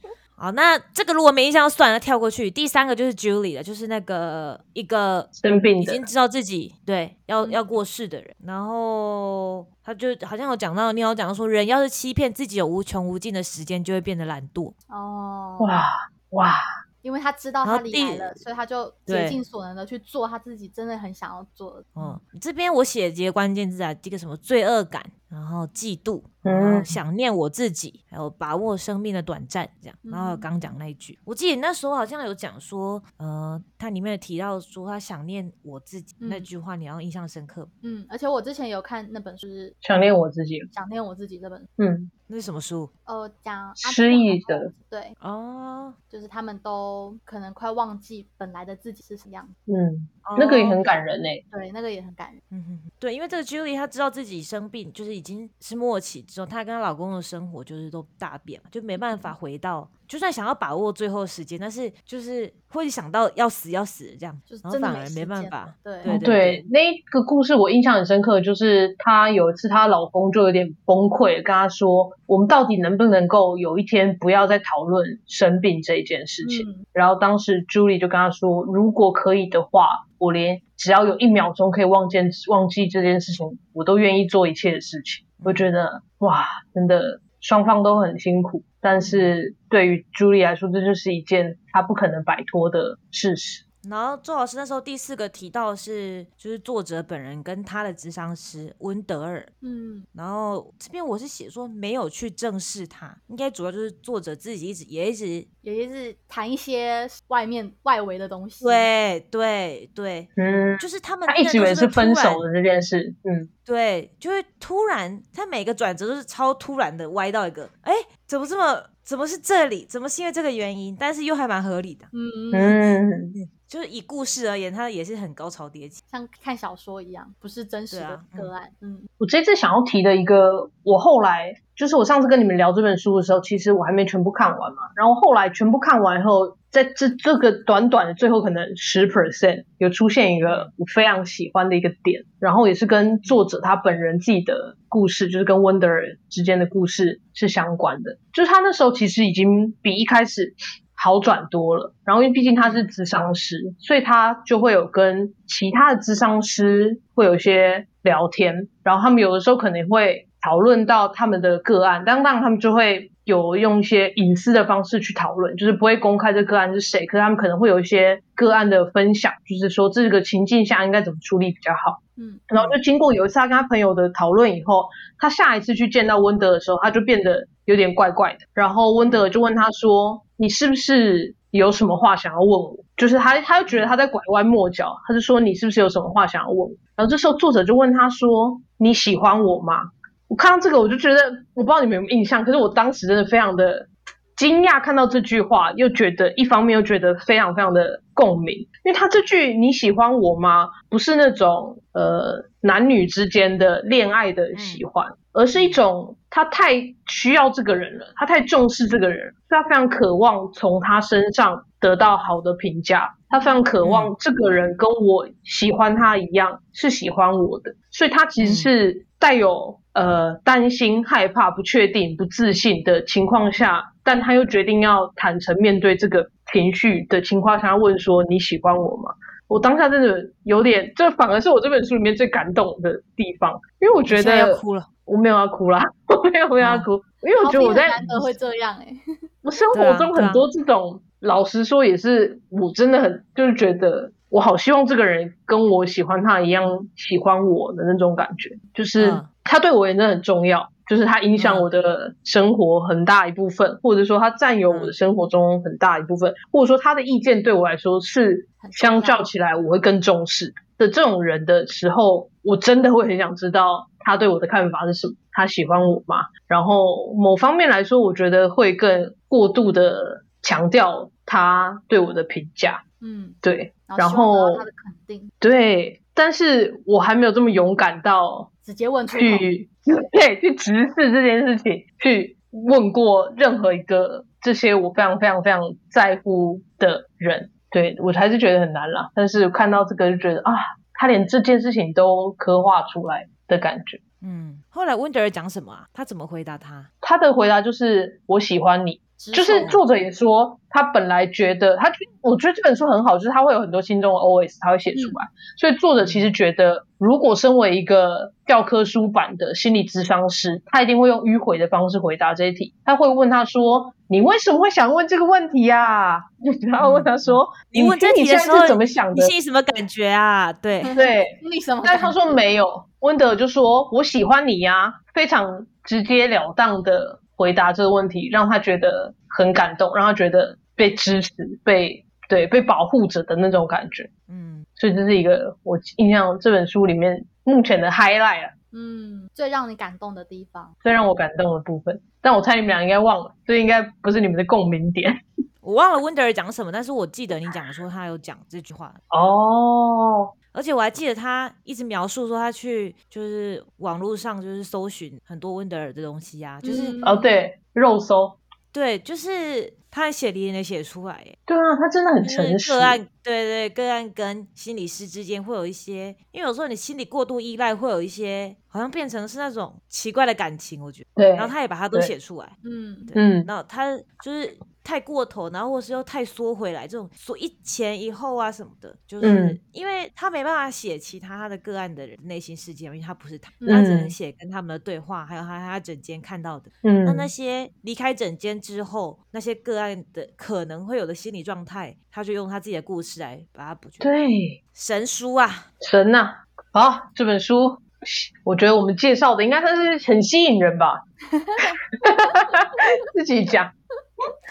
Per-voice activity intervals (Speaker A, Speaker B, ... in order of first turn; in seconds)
Speaker A: 0.4-14.7, 17.6-18.4, 19.1-19.4, 21.9-37.7, 42.3-42.9, 45.2-46.0, 50.2-50.8, 52.5-66.6, 85.4-85.7, 89.0-89.3, 93.8-99.5, 100.1-105.5, 108.6-112.4, 113.7-122.1, 123.3-126.0, 127.9-128.5, 152.6-152.9, 179.0-179.3, 183.7-183.9, 204.5-204.8, 205.5-205.8, 213.8-214.1, 218.4-218.7, 234.1-234.9, 236.6-236.9, 239.7-240.5, 249.0-249.3, 251.3-251.7, 294.2-296.9, 306.0-306.3, 316.8-320.9, 334.3-334.6, 345.6-349.0, 350.5-357.0, 358.7-361.4, 362.2-372.5, 373.1-394.1, 394.7-395.7
Speaker B: 5.4-6.0, 15.6-16.6, 26.4-27.0, 39.8-40.7, 41.8-42.1, 43.8-44.7, 49.7-51.4, 66.0-93.6, 110.4-113.5, 122.5-123.3, 129.2-238.3, 239.4-272.8, 273.4-274.6, 275.4-278.5, 279.1-294.0, 297.0-319.3, 320.9-334.1, 334.8-338.5, 340.8-345.2, 349.1-350.3, 357.0-358.4, 361.5-363.0, 371.1-372.1, 373.1-373.5, 379.2-379.6, 383.6-384.1, 386.8-387.3, 394.0-394.6, 395.8-401.0, 401.6-403.7
Speaker C: 14.9-15.7, 17.0-22.2, 30.0-30.5, 36.2-36.5, 37.8-39.8, 40.7-41.7, 43.0-45.1, 46.1-49.5, 51.5-52.4, 59.0-59.3, 64.5-66.2, 76.4-76.8, 99.6-100.1, 105.6-108.9, 122.1-122.9, 126.1-129.1, 172.2-172.4, 213.3-213.6, 237.4-239.0, 258.6-259.2, 273.0-275.3, 278.6-279.4, 299.2-299.7, 304.9-305.2, 320.8-322.5, 338.7-340.7, 356.6-357.3, 372.6-373.1, 383.6-383.9, 401.3-402.2